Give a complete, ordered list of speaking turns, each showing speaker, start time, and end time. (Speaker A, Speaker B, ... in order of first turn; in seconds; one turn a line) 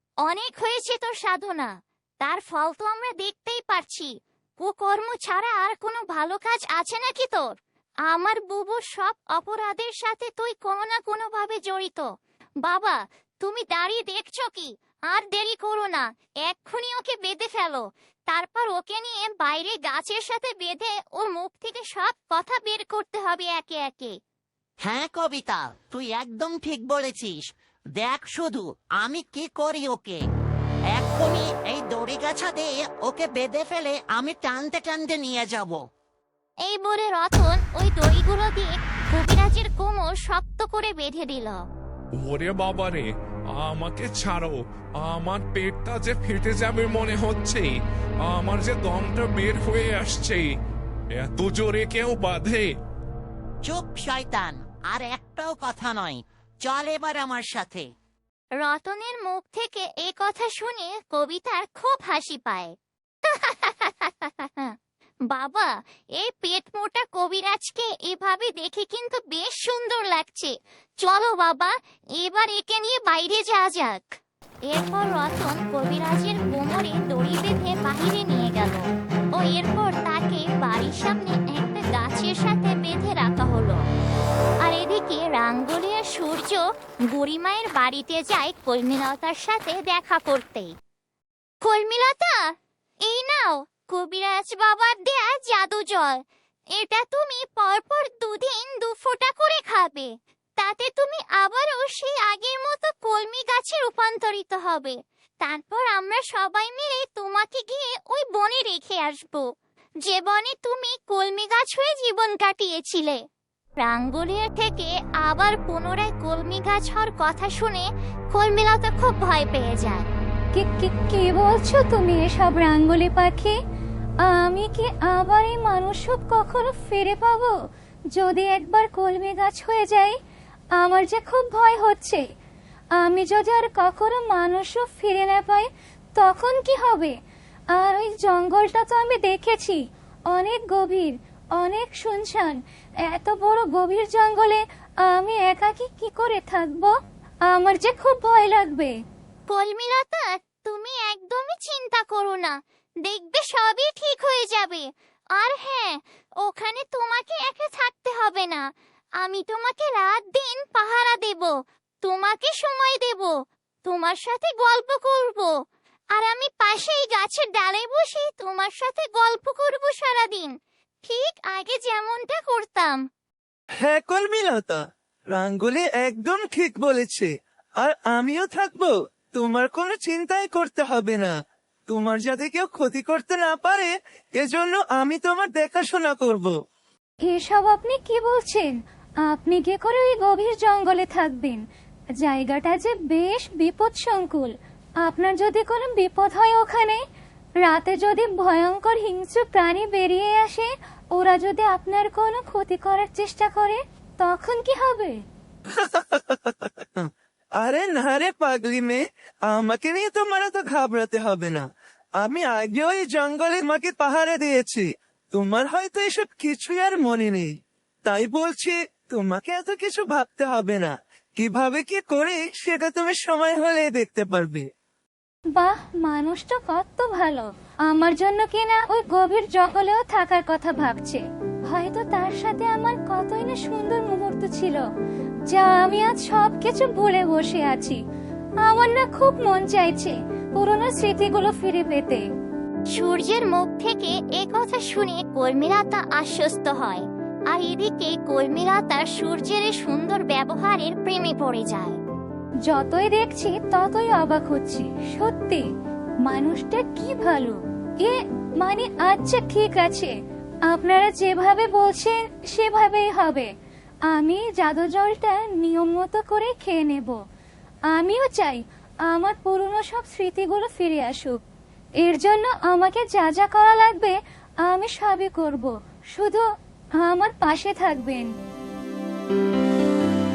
Speaker A: 0.2-7.5
Speaker A: 8.1-12.1
Speaker A: 12.6-24.2
Speaker B: 24.9-27.4
Speaker B: 28.0-30.2
Speaker B: 30.9-35.8
Speaker A: 36.7-41.6
Speaker C: 42.2-50.5
Speaker C: 51.1-52.7
Speaker B: 53.7-57.9
Speaker A: 58.6-62.7
Speaker A: 63.3-64.8
Speaker A: 65.3-83.8
Speaker A: 84.6-90.7
Speaker A: 91.6-96.2
Speaker A: 96.8-109.5
Speaker A: 110.0-113.2
Speaker A: 113.8-120.1
Speaker D: 120.5-123.6
Speaker D: 124.2-127.5
Speaker D: 128.2-130.2
Speaker D: 130.8-132.2
Speaker D: 133.0-137.1
Speaker D: 137.7-139.8
Speaker D: 140.3-146.9
Speaker D: 147.5-148.9
Speaker A: 149.5-158.7
Speaker A: 159.2-163.3
Speaker A: 163.8-165.6
Speaker A: 166.2-173.1
Speaker E: 173.8-181.3
Speaker E: 181.9-186.6
Speaker D: 187.2-191.6
Speaker D: 192.2-197.0
Speaker D: 197.6-205.2
Speaker E: 205.8-211.7
Speaker E: 212.2-217.5
Speaker E: 218.1-224.7
Speaker D: 225.5-234.8
Speaker D: 235.5-238.0
Speaker D: 238.6-242.2
Speaker A: 242.9-252.0
Speaker D: 252.7-255.7
Speaker D: 256.2-260.1
Speaker D: 260.7-263.5
Speaker D: 264.1-267.2
Speaker D: 267.9-271.4
Speaker D: 272.0-276.4
Speaker D: 277.0-278.3